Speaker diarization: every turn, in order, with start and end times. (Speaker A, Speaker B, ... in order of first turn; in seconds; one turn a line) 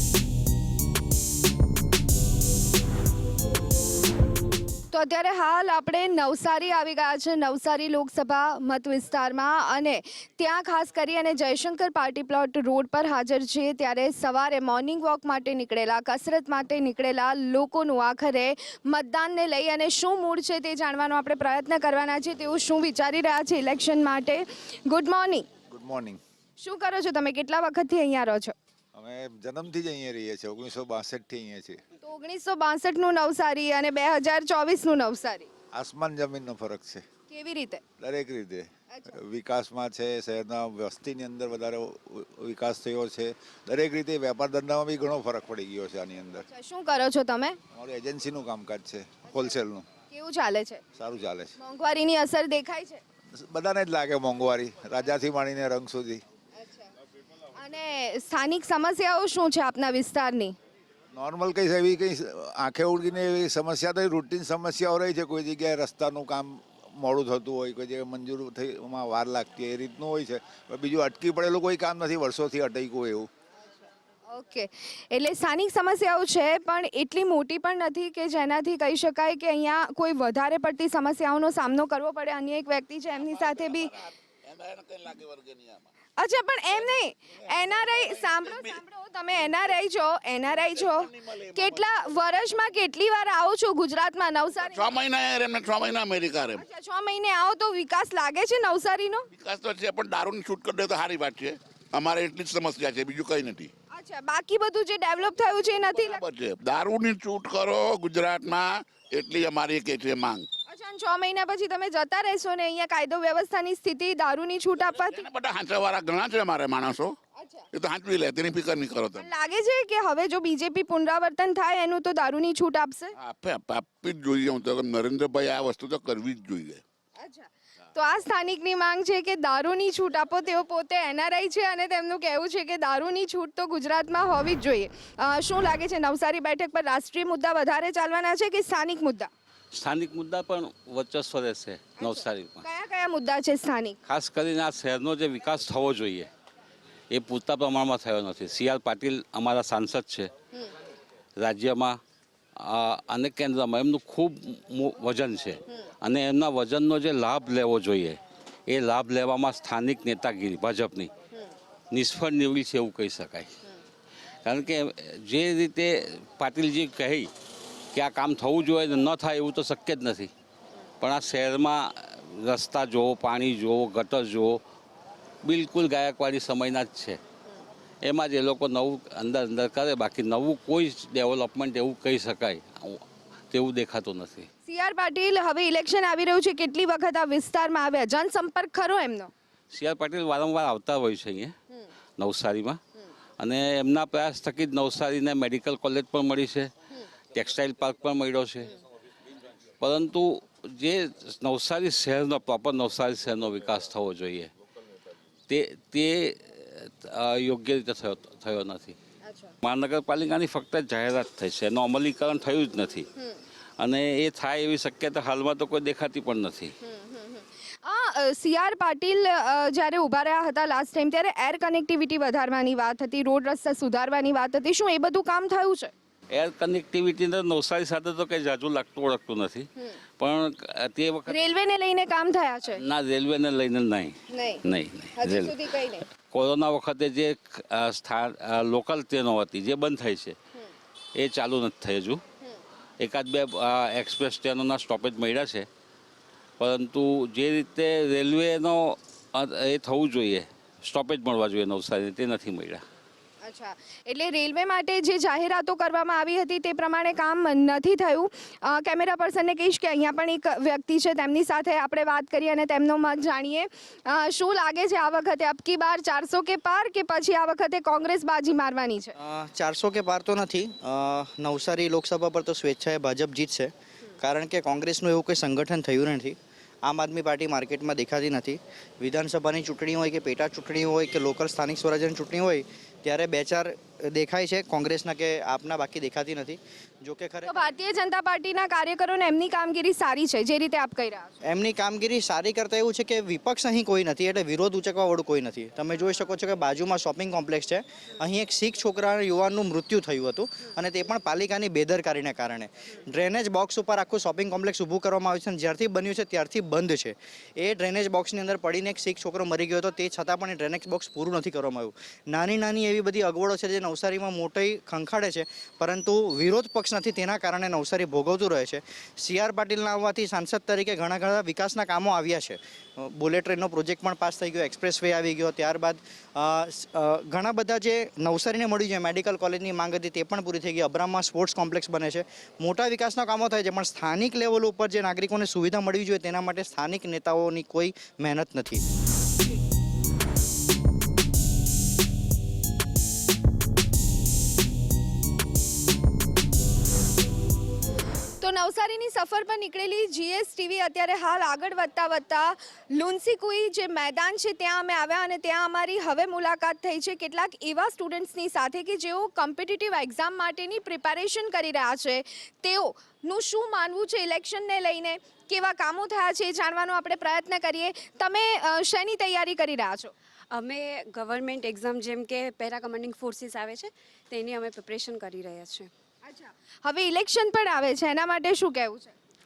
Speaker A: 4.9-25.5
Speaker B: 25.7-26.2
Speaker A: 26.6-28.5
Speaker B: 28.9-31.8
Speaker A: 32.0-35.5
Speaker B: 35.7-37.0
Speaker A: 37.3-37.8
Speaker B: 38.0-46.4
Speaker A: 38.9-39.1
Speaker A: 46.5-47.6
Speaker B: 47.7-49.9
Speaker A: 49.3-49.5
Speaker A: 50.1-50.8
Speaker B: 50.9-51.5
Speaker A: 51.6-53.0
Speaker B: 53.3-56.2
Speaker A: 56.6-56.9
Speaker A: 57.6-60.5
Speaker B: 61.1-73.3
Speaker A: 74.3-83.9
Speaker C: 83.1-85.9
Speaker A: 86.2-95.0
Speaker C: 87.4-88.8
Speaker C: 90.6-92.0
Speaker C: 94.6-96.6
Speaker A: 96.5-99.3
Speaker C: 99.3-103.7
Speaker A: 103.9-106.2
Speaker C: 105.9-110.5
Speaker A: 110.7-115.2
Speaker C: 114.9-117.1
Speaker A: 117.4-117.6
Speaker C: 117.7-119.3
Speaker A: 119.2-123.1
Speaker C: 123.2-126.8
Speaker A: 127.2-139.3
Speaker D: 139.7-142.6
Speaker A: 142.0-144.0
Speaker D: 144.1-146.3
Speaker D: 147.1-150.3
Speaker D: 151.4-152.0
Speaker D: 152.6-161.1
Speaker D: 161.9-163.5
Speaker D: 164.4-167.3
Speaker D: 167.9-170.3
Speaker D: 171.0-174.6
Speaker D: 175.4-177.2
Speaker D: 178.0-184.5
Speaker A: 184.6-189.3
Speaker D: 189.7-191.5
Speaker D: 192.2-192.8
Speaker D: 193.4-196.7
Speaker D: 197.3-198.7
Speaker D: 199.8-204.5
Speaker D: 205.5-208.9
Speaker A: 209.2-209.5
Speaker D: 209.6-213.1
Speaker D: 213.8-216.7
Speaker A: 216.8-225.9
Speaker D: 226.3-231.4
Speaker A: 231.3-232.8
Speaker D: 232.7-235.6
Speaker A: 234.3-234.6
Speaker A: 235.2-236.0
Speaker D: 236.1-240.3
Speaker D: 241.2-242.2
Speaker D: 243.0-245.7
Speaker D: 246.6-252.8
Speaker A: 253.4-269.1
Speaker E: 269.2-287.5
Speaker A: 287.4-291.3
Speaker E: 291.4-338.8
Speaker A: 348.4-370.1
Speaker F: 370.5-375.9
Speaker A: 376.2-379.1